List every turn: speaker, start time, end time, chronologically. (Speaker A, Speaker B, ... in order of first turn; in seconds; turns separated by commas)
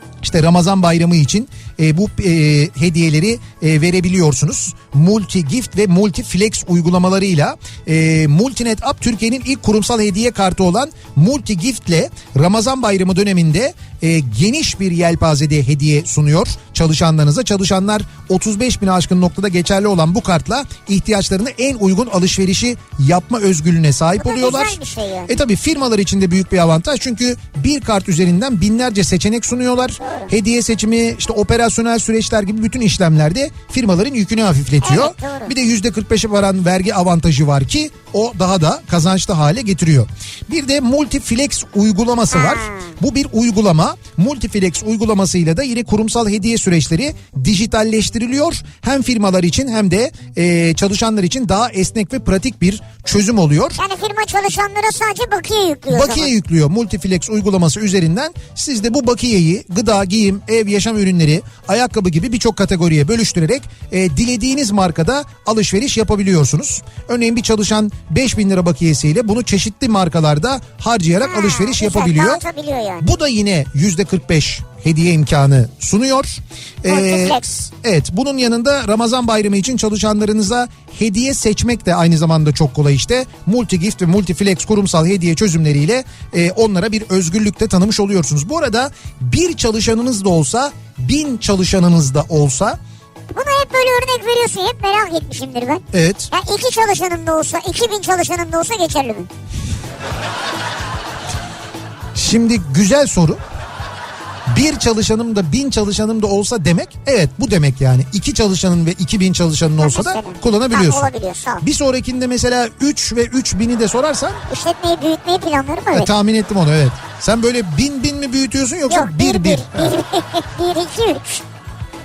Speaker A: 0.2-53.8, Speaker B: 24.2-25.4, Speaker B: 30.0-30.3, Speaker B: 34.8-35.5, Speaker B: 42.3-43.0, Speaker B: 53.8-56.3, Speaker A: 55.9-72.4, Speaker B: 71.2-73.0, Speaker A: 73.0-92.8, Speaker B: 76.9-77.5, Speaker B: 93.3-99.3, Speaker A: 95.9-96.3, Speaker A: 102.1-103.4, Speaker A: 104.5-111.1, Speaker B: 109.8-111.6, Speaker A: 111.6-114.4, Speaker B: 114.5-116.1, Speaker A: 115.9-119.9, Speaker B: 118.9-121.4